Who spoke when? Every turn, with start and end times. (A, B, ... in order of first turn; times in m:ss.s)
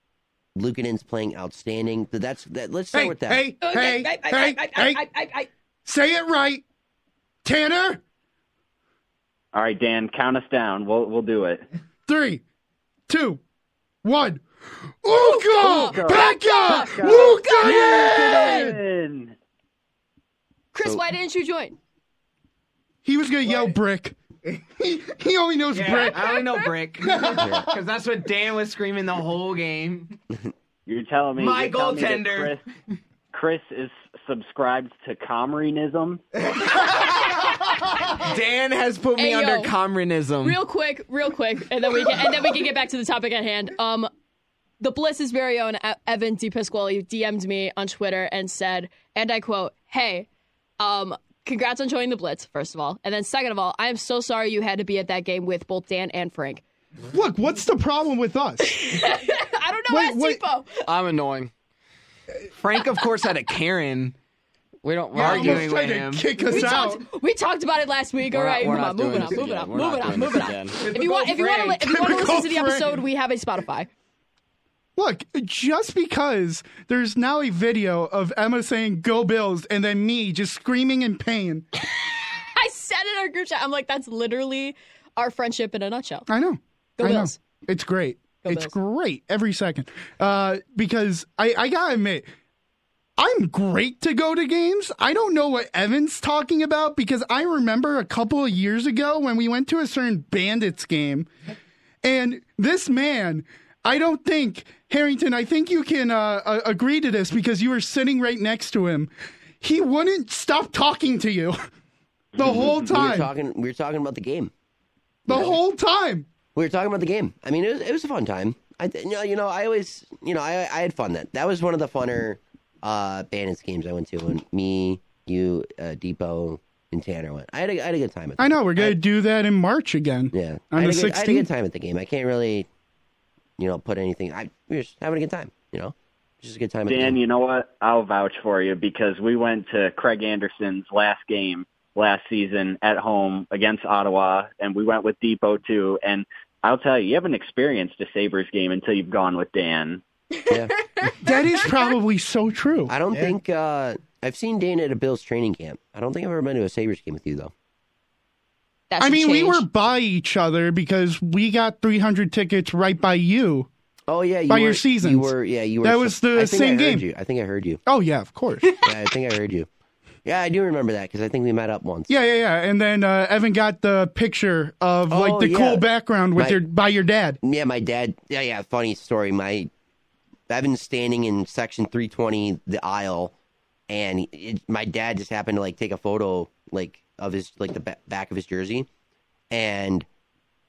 0:00.6-0:03.4 A
0:02.9-0:05.1 B
0:03.6-0:05.5 C
0:05.9-0:06.6 B
0:07.4-0:08.0 B
0:09.5-0:11.6 D
0:12.1-0:12.4 B
0:13.1-0:13.4 B
0:14.0-0:18.8 B
0:15.1-0:18.7 C
0:15.8-0:19.4 D
0:20.7-0:21.8 C
0:23.0-0:24.2 B
0:24.8-0:26.5 B
0:25.7-0:30.2 E
0:26.3-0:26.7 C
0:27.0-0:27.6 B
0:27.3-0:27.6 A
0:30.9-0:32.6 D
0:31.4-0:32.6 E
0:33.3-0:36.2 D
0:36.4-0:40.6 E
0:39.2-0:39.7 C
0:40.4-0:44.1 C
0:44.8-0:50.3 C
0:50.8-0:56.6 C
0:57.1-0:58.8 B
0:58.6-1:00.9 C
0:59.9-1:00.4 B
1:00.8-1:01.5 F
1:02.6-1:04.2 E
1:04.8-1:05.7 F
1:05.2-1:07.0 B
1:05.2-1:06.5 E
1:06.5-1:13.9 C
1:08.3-1:10.8 F
1:10.8-1:11.9 E
1:11.8-1:13.0 B
1:15.0-1:21.7 B
1:22.6-1:26.3 C
1:26.3-1:32.3 B
1:27.0-1:27.4 C
1:28.4-1:28.7 C
1:33.2-1:41.3 B
1:42.0-1:51.6 B
1:52.4-1:53.3 B
1:52.4-1:54.5 A
1:55.3-1:56.3 B
1:55.3-1:55.6 A
1:56.6-2:09.0 A
2:08.4-2:11.5 B
2:10.3-2:12.7 A
2:13.6-2:17.2 A
2:16.9-2:30.0 D
2:30.5-2:30.8 A
2:31.2-2:32.9 B
2:32.9-2:37.5 A
2:38.9-2:39.6 C
2:39.0-2:43.7 B
2:44.1-2:47.8 A
2:44.5-2:47.0 B
2:47.9-2:48.7 B
2:48.7-2:49.7 A
2:50.2-2:52.1 A
2:52.1-2:57.4 B
2:55.1-2:56.6 A
2:57.4-2:59.7 A
3:00.5-3:03.3 A
3:03.9-3:08.9 A
3:09.5-3:10.1 A